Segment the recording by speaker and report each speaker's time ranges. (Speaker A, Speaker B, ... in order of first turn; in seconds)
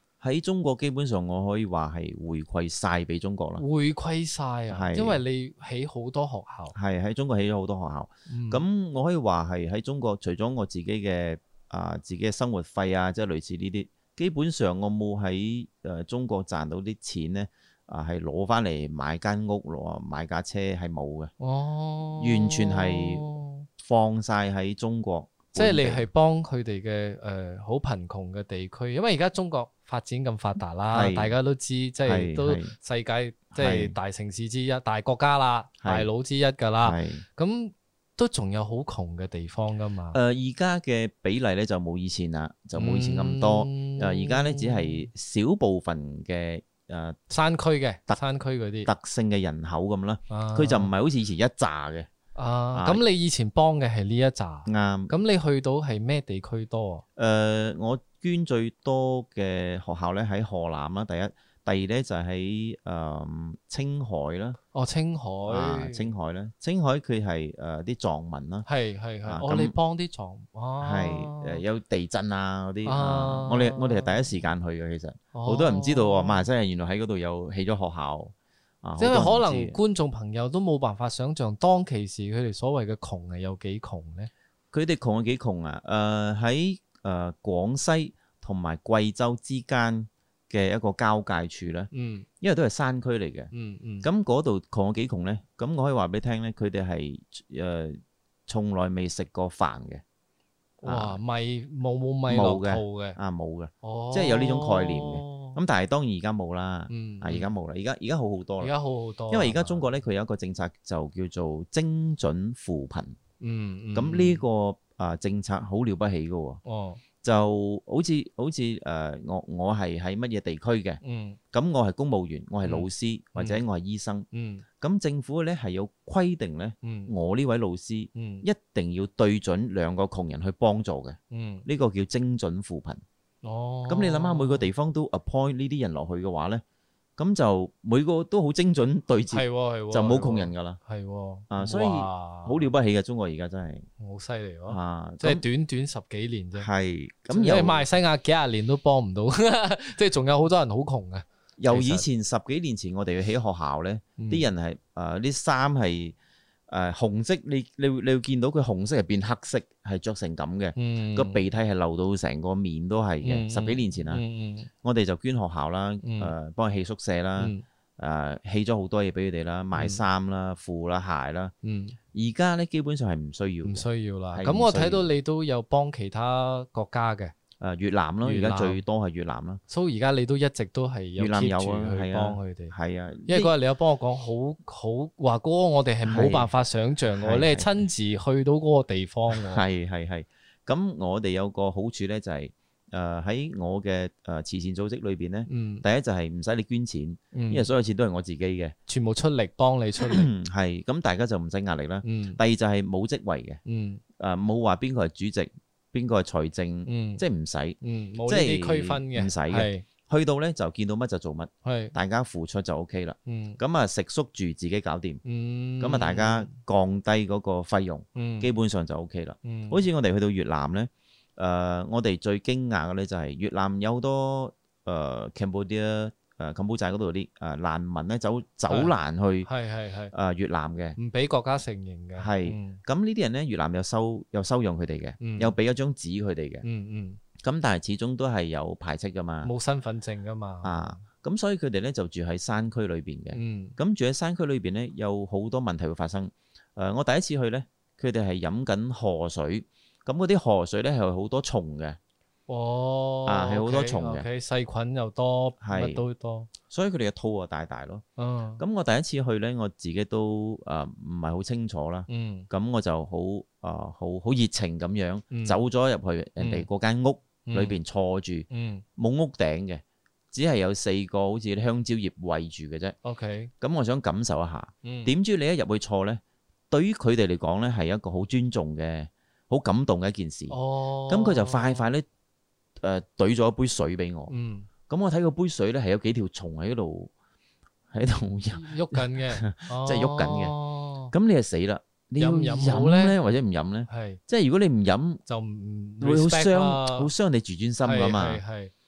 Speaker A: 0.2-3.6, 4.7-5.2, 6.7-21.3, 22.2-23.2, 23.8-26.1, 30.9-31.3, 32.0-32.7, 33.5-34.0, 35.8-36.1, 36.8-37.2, 40.1-47.2, 48.8-52.1, 52.7-53.0, 54.6-55.1, 57.1-64.6, 65.5-68.7, 69.2-69.7, 70.8-79.8, 84.7-93.5, 94.0-100.0, 100.8-101.2, 102.3-108.7, 109.3-113.2, 113.9-116.6, 117.2-121.0, 121.5-124.2, 124.8-133.0, 133.9-136.6, 137.2-140.8, 141.5-143.9, 144.7-145.4, 146.6-147.9, 151.6-156.2, 156.7-164.2, 164.8-171.5, 172.1-175.1, 177.6-179.6, 181.2-183.5, 186.0-186.5, 187.2-187.8, 189.3-198.7, 200.0-203.6, 204.2-215.2, 215.8-229.5, 230.1-231.0, 232.2-236.7, 237.4-239.5, 240.6-252.0, 253.2-254.2, 255.6-256.0, 256.7-258.0, 258.6-272.9, 273.6-280.6, 281.1-282.1, 282.8-284.3, 284.9-287.1, 287.9-290.5, 291.1-295.2, 296.0-298.4
Speaker B: 3.6-6.7, 8.3-8.6, 21.4-23.6, 25.6-40.2, 42.7-45.1, 47.3-48.9, 50.3-50.9, 52.3-57.0, 64.7-66.1, 68.7-71.6, 72.8-74.2, 75.3-76.5, 79.0-84.3, 91.9-92.3, 93.5-94.1, 100.8-103.2, 103.8-105.6, 106.9-107.5, 108.6-109.8, 113.4-114.4, 116.6-117.0, 121.0-121.4, 122.6-123.6, 124.3-124.6, 126.8-127.1, 128.1-128.4, 131.3-131.7, 133.4-134.7, 139.3-142.7, 144.0-146.7, 147.3-152.1, 154.2-154.4, 160.8-161.4, 163.2-164.7, 166.0-166.3, 167.4-167.6, 169.7-170.0, 171.6-172.0, 173.6-177.3, 178.2-178.8, 179.7-182.7, 183.2-189.6, 195.5-195.8, 197.3-197.7, 198.9-200.3, 202.0-202.4, 203.6-204.0, 206.8-207.2, 207.8-209.8, 211.6-211.9, 213.2-213.6, 215.2-216.5, 218.2-218.5, 219.4-219.8, 228.7-228.9, 229.4-230.1, 231.0-232.8, 235.2-235.5, 236.6-237.2, 239.4-241.0, 243.3-243.8, 252.5-256.5, 258.2-258.6, 262.1-262.5, 265.3-265.6, 266.4-266.7, 267.4-267.7, 268.5-268.8, 273.0-273.5, 274.8-275.1, 280.5-281.9, 284.3-284.7, 288.5-291.1, 292.2-293.1, 293.9-294.2, 295.2-297.1, 297.8-298.7